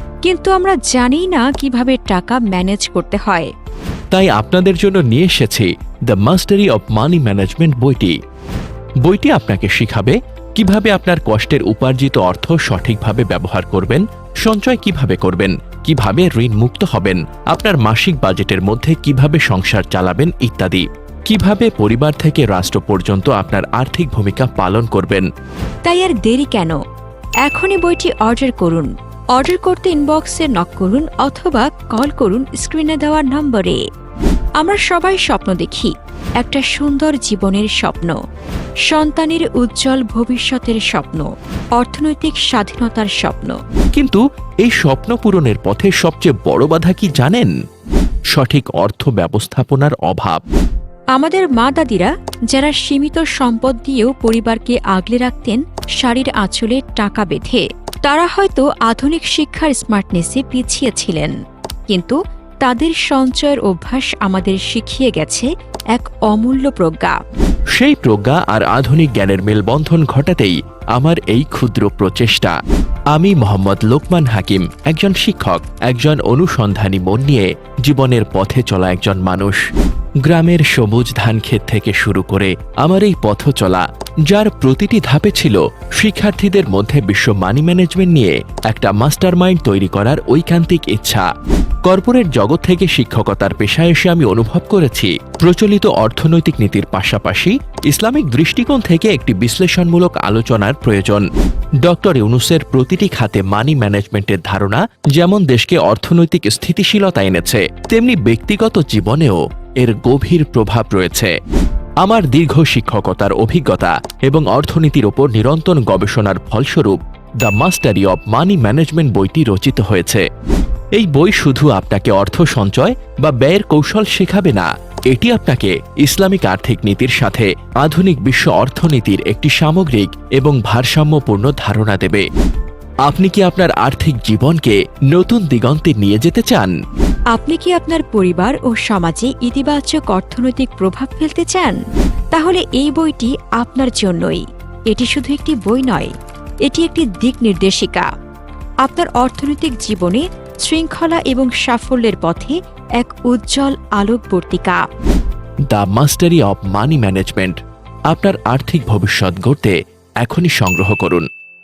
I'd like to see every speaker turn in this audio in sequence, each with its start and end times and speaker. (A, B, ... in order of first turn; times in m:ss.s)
0:00.2-0:03.5 A
0:04.1-0:08.2 B
0:09.0-0:25.3 B
0:25.8-0:26.8 A
0:27.4-0:33.8 A
0:34.6-0:38.2 A
0:38.9-0:43.6 A
0:44.0-0:47.5 B
0:48.3-0:50.4 B
0:51.1-1:01.3 A
1:01.9-1:07.2 A
1:07.8-1:12.5 B
1:13.1-1:19.6 B
1:20.2-1:31.3 B
1:31.8-1:41.2 B
1:41.8-1:51.3 B
1:52.0-2:00.2 B
2:01.0-2:12.2 B
2:13.1-2:16.7 B
2:17.3-2:21.8 A
2:22.3-2:26.1 A
2:26.6-2:28.1 A
2:28.8-2:34.8 A
2:35.7-2:37.6 B
2:38.1-2:41.2 B